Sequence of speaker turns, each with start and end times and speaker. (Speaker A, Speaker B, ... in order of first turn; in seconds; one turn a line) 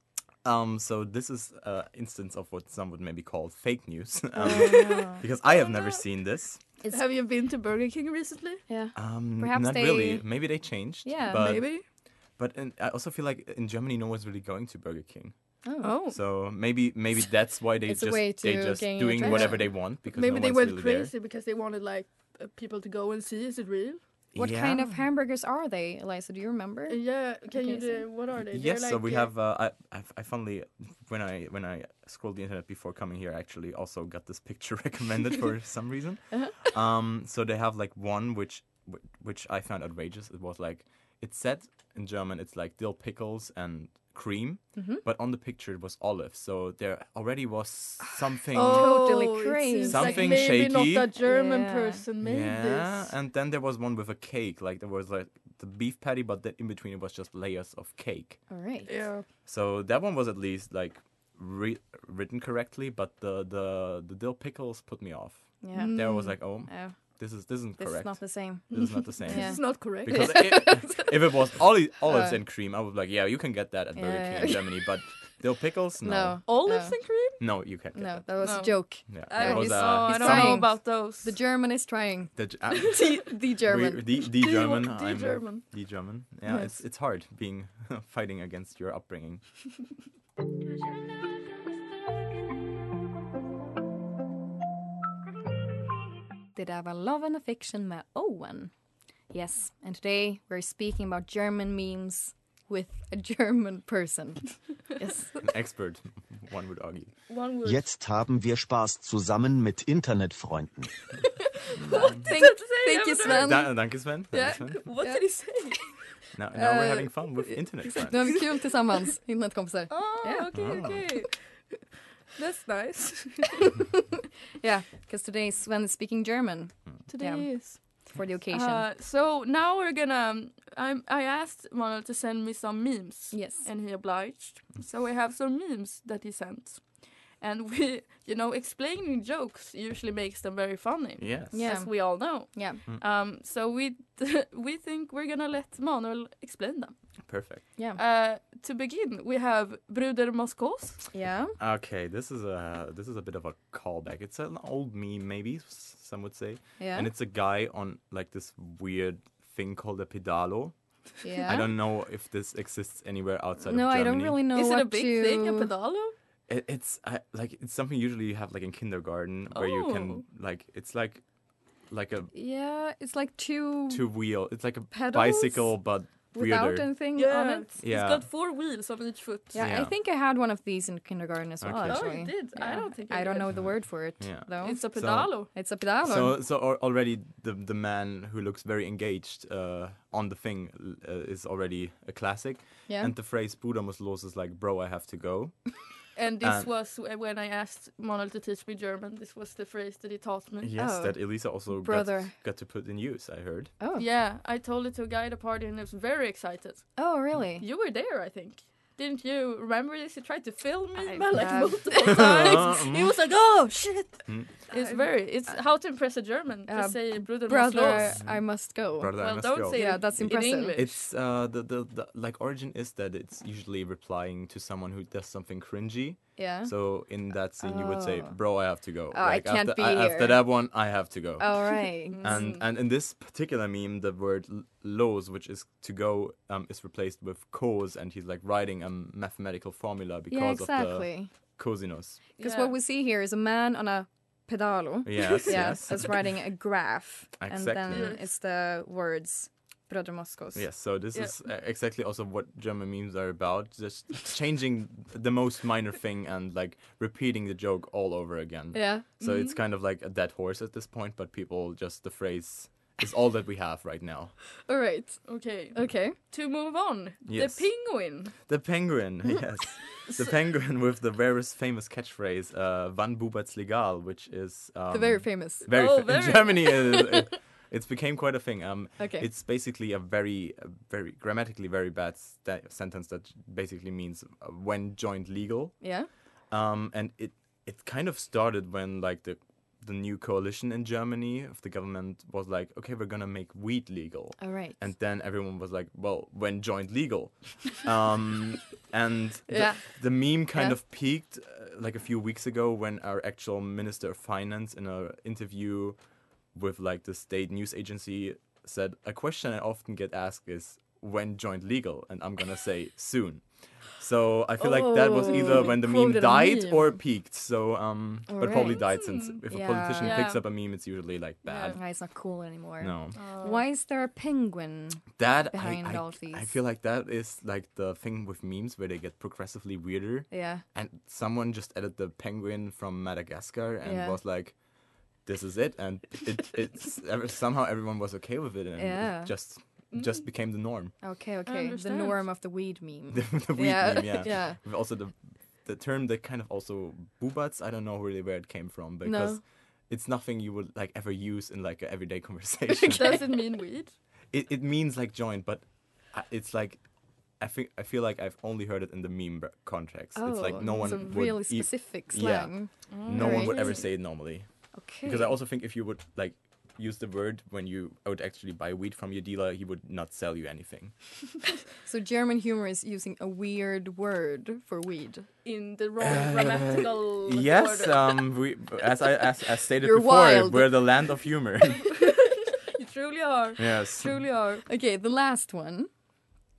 Speaker A: 0.4-6.6
Speaker B: 4.4-5.2
Speaker C: 5.4-6.0
Speaker C: 6.9-8.6
Speaker B: 8.7-10.3
Speaker A: 8.9-11.8
Speaker B: 11.0-11.6
Speaker C: 11.3-11.8
Speaker A: 12.4-15.3
Speaker B: 15.6-15.9
Speaker C: 15.8-16.2
Speaker A: 16.1-21.1
Speaker B: 17.9-19.6
Speaker C: 19.2-24.0
Speaker A: 24.3-25.0
Speaker B: 24.4-28.0
Speaker C: 26.9-29.3
Speaker A: 28.5-49.2
Speaker B: 44.8-45.0
Speaker C: 48.5-53.1
Speaker B: 48.6-50.6
Speaker A: 49.9-51.1
Speaker B: 51.2-52.0
Speaker A: 52.2-58.4
Speaker B: 58.5-58.9
Speaker C: 58.9-59.2
Speaker A: 59.5-76.4
Speaker B: 65.6-66.9
Speaker C: 65.7-66.3
Speaker B: 67.8-68.7
Speaker C: 68.7-71.0
Speaker B: 69.2-71.0
Speaker B: 72.1-72.4
Speaker B: 74.0-74.8
Speaker B: 76.0-76.9
Speaker C: 76.5-77.4
Speaker A: 77.4-78.2
Speaker B: 77.9-84.0
Speaker C: 78.4-81.3
Speaker A: 79.1-80.7
Speaker A: 82.3-89.4
Speaker C: 82.9-83.2
Speaker C: 84.3-85.6
Speaker B: 96.5-98.7
Speaker B: 99.3-105.5
Speaker A: 105.4-107.1
Speaker C: 107.3-107.8
Speaker D: 107.6-111.0
Speaker C: 111.6-113.8
Speaker A: 111.8-112.3
Speaker B: 111.9-113.7
Speaker A: 113.2-114.9
Speaker C: 114.3-116.1
Speaker A: 116.3-118.4
Speaker B: 116.5-120.8
Speaker C: 119.9-121.8
Speaker A: 120.5-121.1
Speaker C: 122.3-123.7
Speaker B: 124.6-128.9
Speaker C: 127.1-146.9
Speaker B: 133.3-133.6
Speaker A: 141.2-141.7
Speaker B: 141.5-142.8
Speaker A: 147.2-147.7
Speaker C: 147.9-151.0
Speaker B: 151.1-151.6
Speaker A: 151.6-160.7
Speaker B: 156.8-157.1
Speaker B: 161.2-161.7
Speaker A: 161.4-164.4
Speaker B: 163.7-165.7
Speaker C: 164.5-166.1
Speaker A: 166.5-171.2
Speaker C: 169.5-170.2
Speaker A: 171.9-172.3
Speaker B: 172.3-174.1
Speaker A: 173.9-176.9
Speaker B: 174.9-177.7
Speaker C: 177.1-179.7
Speaker A: 177.8-178.3
Speaker B: 179.5-186.4
Speaker A: 179.6-179.9
Speaker A: 181.6-182.2
Speaker C: 181.9-183.5
Speaker A: 183.5-185.3
Speaker C: 184.6-185.5
Speaker A: 186.0-195.6
Speaker B: 192.9-193.1
Speaker C: 196.2-200.7
Speaker A: 196.4-196.7
Speaker A: 200.6-203.7
Speaker B: 200.8-202.3
Speaker B: 203.8-204.1
Speaker C: 203.9-207.0
Speaker B: 206.9-207.6
Speaker C: 207.6-218.2
Speaker B: 211.0-212.3
Speaker A: 212.0-213.2
Speaker B: 214.7-215.5
Speaker B: 216.7-220.8
Speaker A: 218.1-242.2
Speaker C: 219.2-221.0
Speaker B: 226.4-226.7
Speaker B: 227.6-228.5
Speaker B: 229.1-230.6
Speaker B: 231.4-232.6
Speaker C: 232.1-232.6
Speaker B: 240.3-241.3
Speaker C: 242.4-242.7
Speaker B: 242.4-250.6
Speaker A: 245.0-246.3
Speaker A: 247.4-248.2
Speaker C: 247.9-248.2
Speaker A: 250.5-264.4
Speaker B: 258.7-259.0
Speaker C: 259.2-259.6
Speaker B: 264.7-266.2
Speaker C: 265.2-268.3
Speaker A: 267.2-285.9
Speaker B: 274.9-275.7
Speaker C: 275.7-277.3
Speaker B: 279.0-279.3
Speaker B: 285.8-286.1
Speaker A: 286.5-306.0
Speaker B: 294.4-294.9
Speaker B: 299.5-300.8
Speaker A: 306.5-321.8
Speaker C: 314.6-316.8
Speaker B: 314.9-315.8
Speaker B: 318.3-318.9
Speaker C: 318.5-319.4
Speaker B: 319.5-320.3
Speaker C: 320.0-320.4
Speaker C: 321.4-321.8
Speaker B: 321.7-326.5
Speaker A: 322.8-323.2
Speaker C: 323.1-323.6
Speaker A: 325.1-334.6
Speaker B: 330.3-330.6
Speaker B: 333.8-334.2
Speaker A: 335.2-340.9
Speaker B: 338.8-339.3
Speaker C: 339.9-340.2
Speaker B: 341.0-344.6
Speaker C: 341.4-342.2
Speaker A: 343.1-353.3
Speaker B: 349.0-349.4
Speaker C: 352.8-353.9
Speaker B: 352.9-353.2
Speaker A: 354.3-356.8
Speaker A: 357.4-364.5
Speaker B: 360.1-363.7
Speaker C: 360.8-361.2
Speaker C: 362.9-363.8
Speaker B: 364.7-365.4
Speaker A: 365.0-370.9
Speaker B: 371.8-375.3
Speaker C: 375.4-378.2
Speaker A: 376.0-381.9
Speaker B: 379.8-380.8
Speaker C: 381.9-384.6
Speaker A: 383.6-384.2
Speaker B: 384.6-385.9